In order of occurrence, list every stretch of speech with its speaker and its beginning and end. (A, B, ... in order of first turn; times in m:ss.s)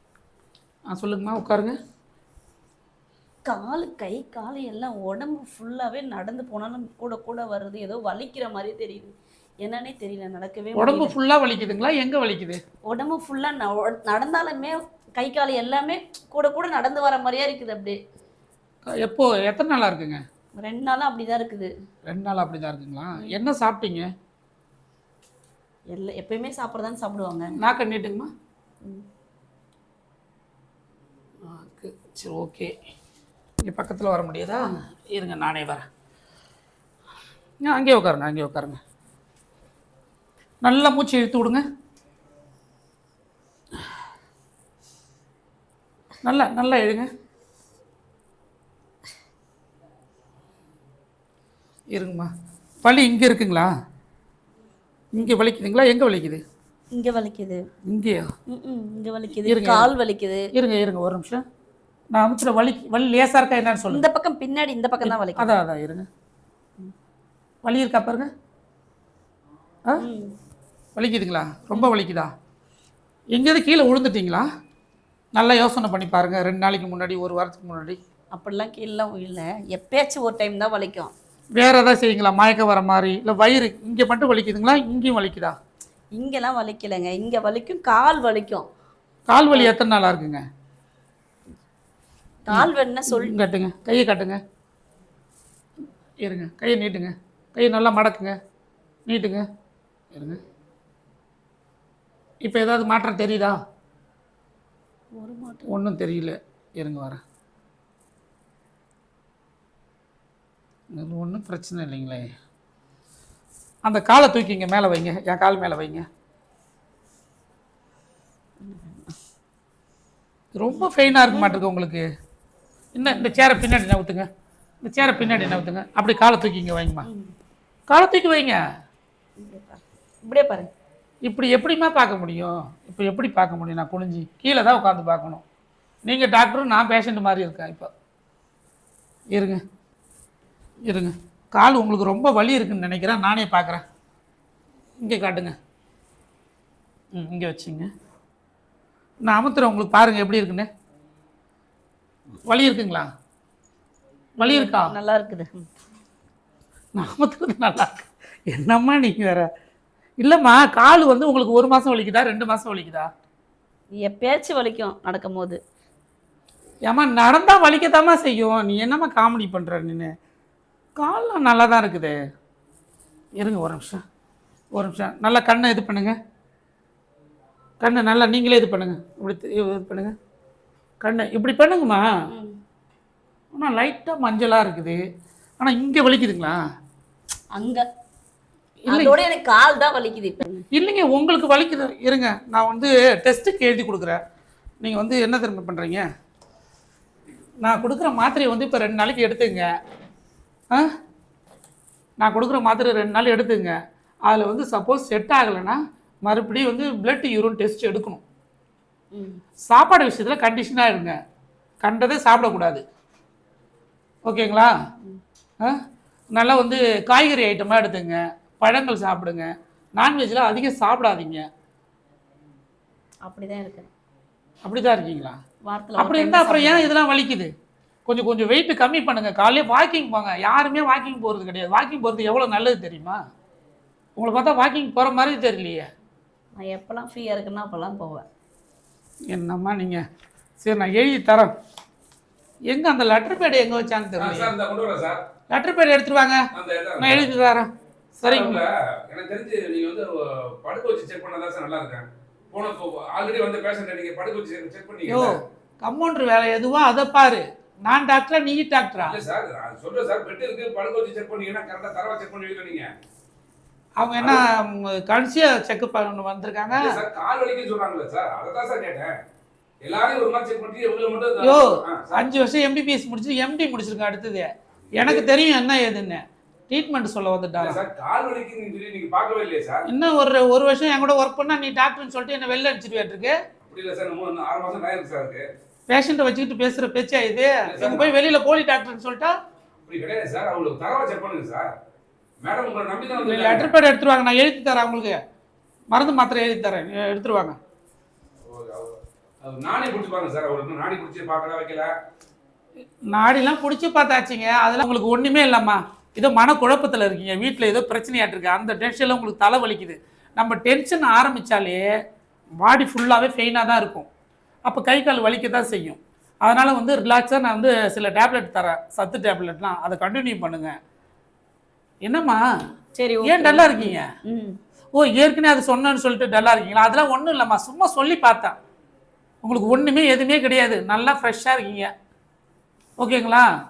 0:00.9-0:01.7 A
0:03.4-0:11.1 B
0:10.8-0:12.6 A
0:12.9-0:18.0 B
0:18.9-0:20.2 A
0:20.6-0:21.7 B
0:22.1-0:24.1 A
0:25.9-0:27.5 B
0:27.6-0:28.3 A
0:31.4-0:32.7 A
0:33.6-0:35.8 A
0:37.6-0:38.8 A
0:40.6-0:41.6 A
0:46.2-0:47.1 A
0:51.9-0:52.3 A
0:52.8-0:53.7 A
0:55.1-0:56.4 A
0:56.9-0:57.7 B
0:57.8-0:58.3 A
0:58.5-1:00.5 B
0:59.4-0:59.9 A
1:00.5-1:01.4 A
1:02.1-1:04.0 A
1:03.9-1:05.6 B
1:05.0-1:06.1 A
1:07.6-1:08.3 A
1:10.0-1:10.4 B
1:11.0-1:12.3 A
1:13.3-1:14.4 A
1:15.3-1:18.0 A
1:18.3-1:21.1 B
1:21.6-1:25.6 A
1:26.1-1:28.7 B
1:29.3-1:30.4 A
1:32.5-1:33.3 B
1:32.5-1:34.4 A
1:36.2-1:38.4 A
1:39.0-1:39.4 A
1:40.1-1:40.4 A
1:42.4-1:43.6 A
1:45.1-1:45.7 B
1:45.7-1:47.2 A
1:50.9-1:52.3 A
1:53.8-1:56.0 A
1:58.6-1:59.1 B
2:00.6-2:02.0 A
2:00.7-2:01.6 B
2:02.9-2:04.3 A
2:03.0-2:03.4 B
2:04.8-2:07.1 A
2:07.1-2:07.3 B
2:07.9-2:08.6 A
2:09.4-2:10.7 B
2:11.3-2:15.4 A
2:16.0-2:17.9 A
2:19.3-2:19.6 A
2:20.8-2:23.8 A
2:25.0-2:25.5 A
2:27.1-2:27.9 A
2:29.2-2:30.7 A
2:32.5-2:33.1 A
2:34.4-2:34.9 A
2:34.4-2:35.6 B
2:36.9-2:39.5 A
2:40.2-2:43.1 A
2:44.0-2:45.6 B
2:46.9-2:50.1 A
2:51.0-2:52.2 A
2:53.4-2:54.0 A
2:54.7-2:56.1 A
2:57.8-3:00.1 A
3:01.0-3:02.0 A
3:02.3-3:02.6 B
3:03.5-3:05.0 A
3:05.6-3:06.6 A
3:07.5-3:07.8 B
3:08.9-3:09.2 A
3:08.9-3:10.6 B
3:10.7-3:14.2 A
3:14.8-3:16.0 A
3:17.6-3:19.7 A
3:22.2-3:28.2 A
3:29.1-3:29.4 B
3:29.7-3:31.2 A
3:31.8-3:32.8 A
3:34.2-3:34.7 A
3:36.3-3:41.5 A
3:43.2-3:43.9 B
3:44.6-3:45.4 A
3:45.6-3:46.9 B
3:46.0-3:47.5 A
3:48.0-3:53.2 A
3:54.2-3:55.9 A
3:56.6-3:58.2 B
3:59.3-4:00.0 A
4:00.6-4:01.5 A
4:02.7-4:04.5 A
4:04.2-4:05.2 C
4:05.5-4:06.4 A
4:06.5-4:07.3 C
4:07.0-4:08.6 A
4:08.2-4:15.4 C
4:15.1-4:19.2 A
4:19.0-4:22.9 C
4:24.0-4:26.9 A
4:26.7-4:29.1 C
4:29.8-4:32.3 C
4:31.4-4:37.8 A
4:34.9-4:35.3 C
4:37.6-4:39.8 C
4:39.9-4:43.4 A
4:43.6-4:45.4 C
4:45.9-4:49.3 A
4:47.6-4:48.1 C
4:49.9-4:51.7 C
4:52.4-4:53.7 C
4:53.1-4:55.2 A
4:55.9-4:57.6 A
4:58.4-5:01.9 C
5:03.1-5:11.9 A
5:12.6-5:14.1 A
5:14.6-5:20.8 A
5:22.0-5:22.4 A
5:23.0-5:24.6 B
5:23.2-5:24.0 A
5:24.9-5:28.6 A
5:29.4-5:31.9 A
5:33.0-5:33.5 A